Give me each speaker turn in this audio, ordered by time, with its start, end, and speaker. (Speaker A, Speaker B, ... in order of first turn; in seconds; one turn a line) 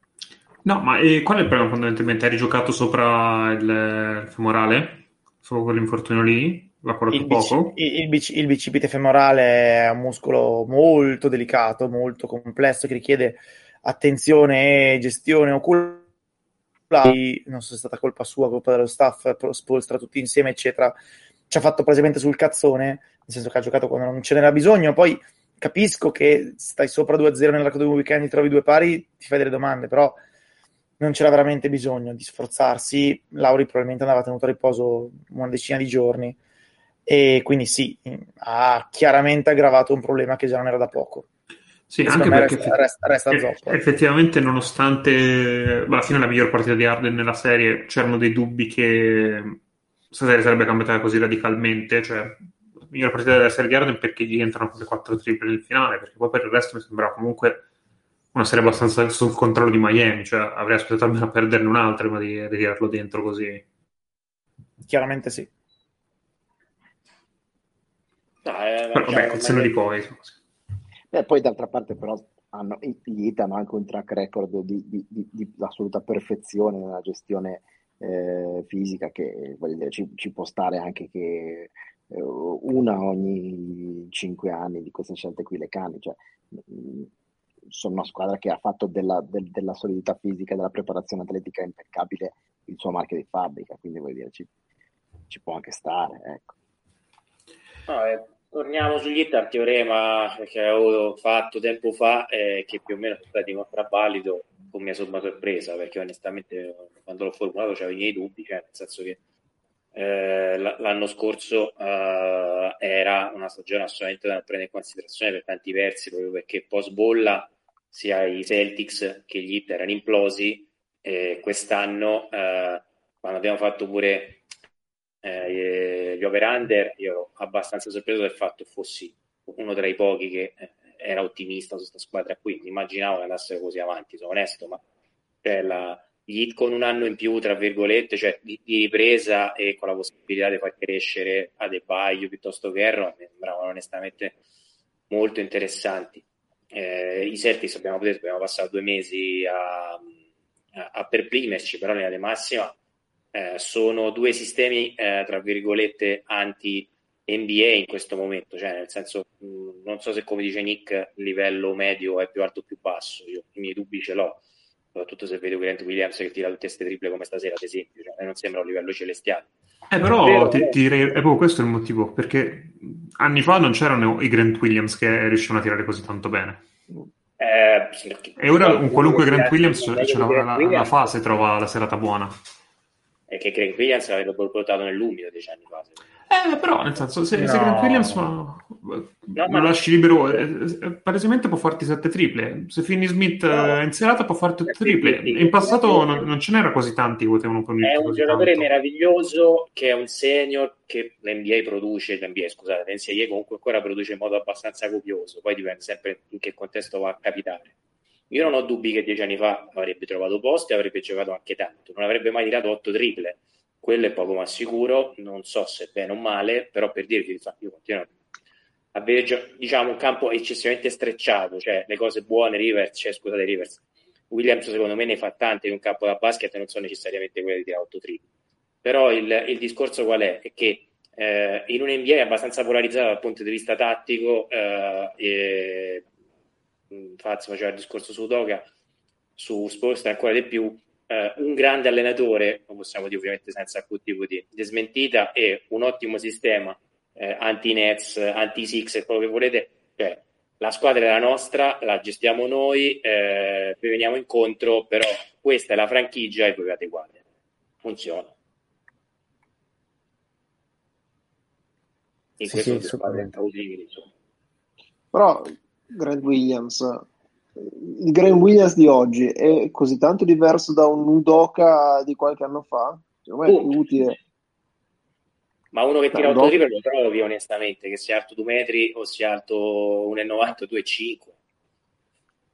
Speaker A: 0.6-7.8
Speaker B: 7.1-16.1
Speaker B: 16.9-21.0
Speaker B: 21.5-30.2
Speaker B: 31.0-36.4
Speaker B: 37.1-41.3
Speaker A: 41.9-49.6
Speaker B: 42.0-43.8
Speaker A: 50.1-57.6
Speaker A: 58.3-63.6
Speaker B: 64.9-65.5
Speaker C: 68.4-69.8
Speaker A: 68.9-70.4
Speaker D: 71.1-87.1
Speaker D: 87.7-94.5
Speaker D: 95.3-96.5
Speaker C: 97.9-109.2
Speaker C: 110.0-124.4
Speaker C: 125.2-134.8
Speaker C: 135.4-144.4
Speaker C: 145.1-150.1
Speaker C: 150.8-152.8
Speaker C: 153.3-164.4
Speaker C: 164.9-169.5
Speaker A: 169.9-176.6
Speaker C: 170.2-170.8
Speaker C: 177.4-180.9
Speaker A: 178.4-182.4
Speaker C: 183.3-186.0
Speaker A: 186.3-198.7
Speaker B: 187.3-188.2
Speaker C: 189.4-190.4
Speaker C: 193.5-193.8
Speaker C: 194.7-196.3
Speaker C: 197.8-207.7
Speaker C: 208.3-218.1
Speaker C: 218.9-228.2
Speaker C: 228.8-236.1
Speaker C: 236.9-238.7
Speaker C: 239.4-257.2
Speaker C: 257.8-258.3
Speaker C: 262.4-264.1
Speaker B: 262.5-263.3
Speaker E: 265.1-267.0
Speaker E: 267.6-274.2
Speaker C: 273.5-273.8
Speaker C: 275.7-281.3
Speaker E: 276.1-276.6